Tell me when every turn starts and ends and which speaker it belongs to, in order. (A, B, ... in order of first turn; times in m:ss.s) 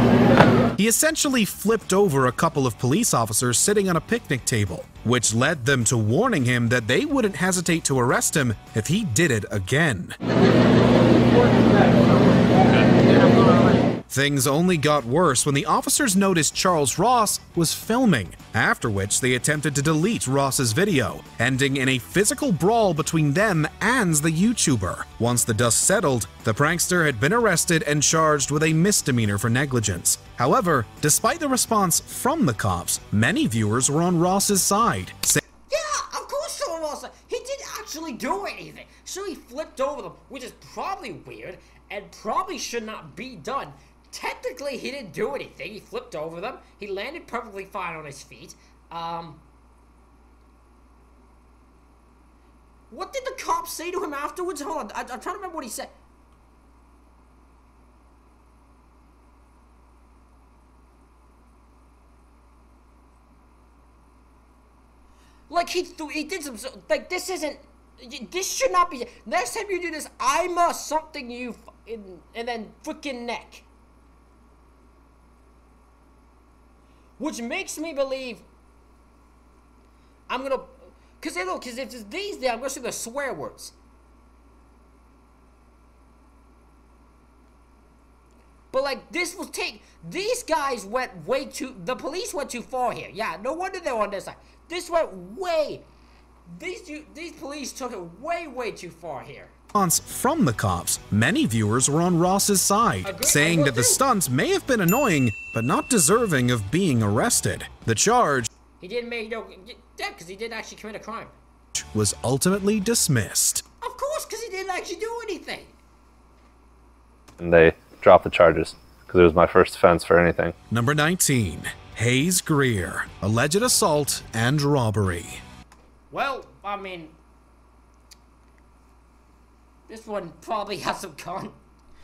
0:00.8-0:10.2 A
0:14.1-0:35.4 A
0:35.7-0:49.4 B
0:52.9-0:55.9 B
1:05.5-1:13.6 B
1:17.2-1:18.4 B
1:20.3-1:23.7 B
1:28.7-1:35.8 B
1:36.5-1:39.5 B
1:39.7-1:48.5 A
1:43.0-1:44.0 B
1:48.8-1:51.3 B
1:51.7-1:53.6 A
1:53.8-1:55.7 B
1:57.4-2:00.5 C
2:00.7-2:05.4 A
2:06.1-2:07.1 B
2:09.9-2:11.6 B